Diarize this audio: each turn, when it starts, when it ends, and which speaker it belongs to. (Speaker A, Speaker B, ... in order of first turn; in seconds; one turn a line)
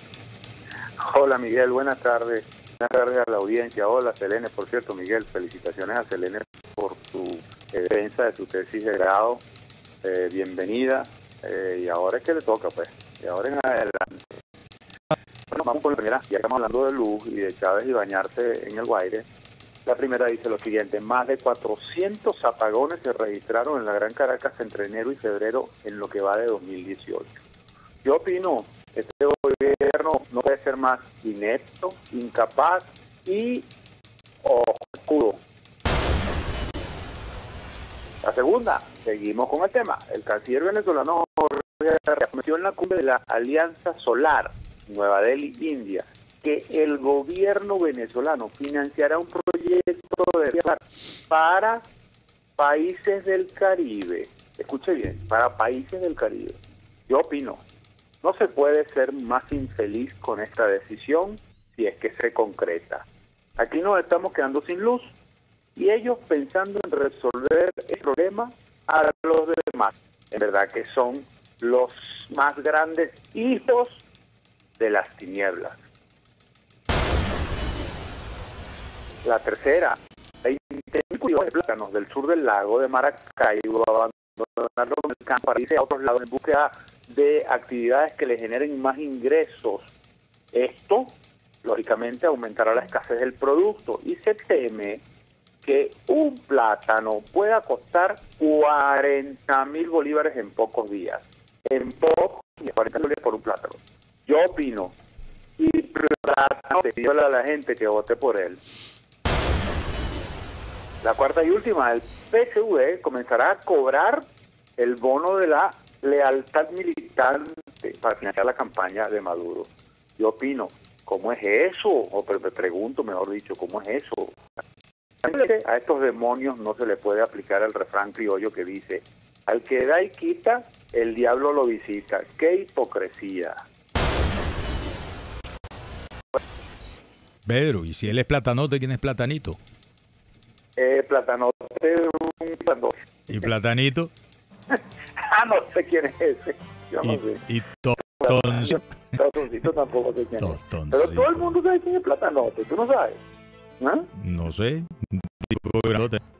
Speaker A: 1.0-9.4
Speaker A: 10.0-14.2
Speaker A: 15.5-19.3
Speaker A: 19.9-27.4
Speaker A: 28.0-33.7
Speaker A: 34.4-35.4
Speaker A: 38.2-51.9
Speaker A: 52.6-57.6
Speaker A: 58.2-65.1
Speaker A: 65.8-74.0
Speaker A: 74.8-75.8
Speaker A: 79.2-89.9
Speaker A: 90.5-95.0
Speaker A: 95.6-105.0
Speaker A: 105.6-108.6
Speaker A: 111.0-114.3
Speaker A: 114.8-124.4
Speaker A: 125.2-133.6
Speaker B: 137.5-139.6
Speaker A: 140.8-142.9
Speaker B: 143.3-144.1
Speaker A: 144.7-147.4
Speaker B: 147.0-148.8
Speaker A: 148.0-153.2
Speaker B: 150.4-151.6
Speaker A: 153.8-154.1
Speaker B: 154.2-156.2